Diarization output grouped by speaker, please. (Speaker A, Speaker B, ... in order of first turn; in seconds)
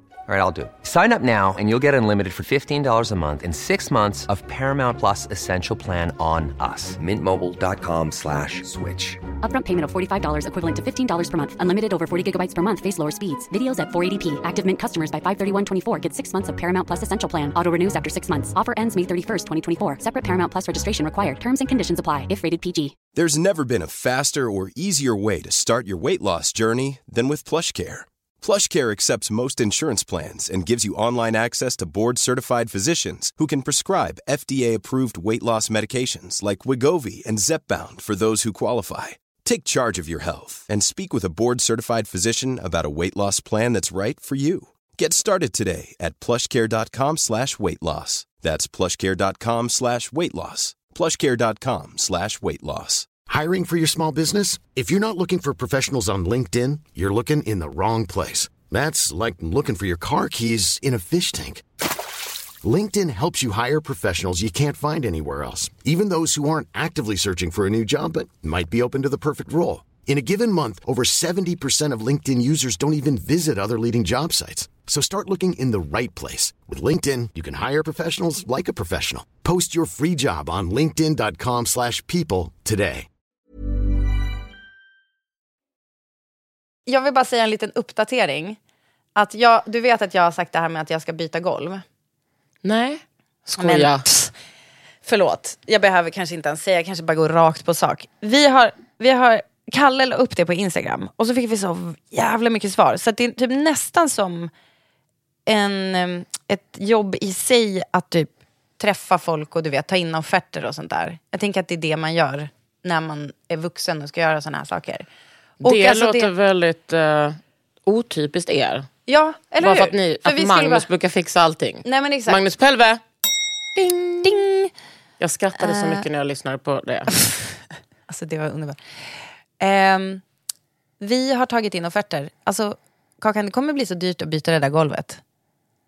Speaker A: 0.3-9.2
Speaker B: 9.4-23.0
Speaker C: 23.1-53.2
Speaker D: 53.2-61.6, 62.6-83.1
Speaker E: 86.9-88.6, 89.2-91.8, 93.6-94.3, 95.0-104.5, 105.5-115.1, 115.6-116.3, 119.1-120.9, 121.8-122.4, 124.2-124.7, 125.6-126.0, 128.1-128.8, 129.6-130.2, 131.0-135.2
Speaker F: 92.6-94.1, 115.6-118.9, 119.6-123.0, 123.8-124.4, 125.2-127.1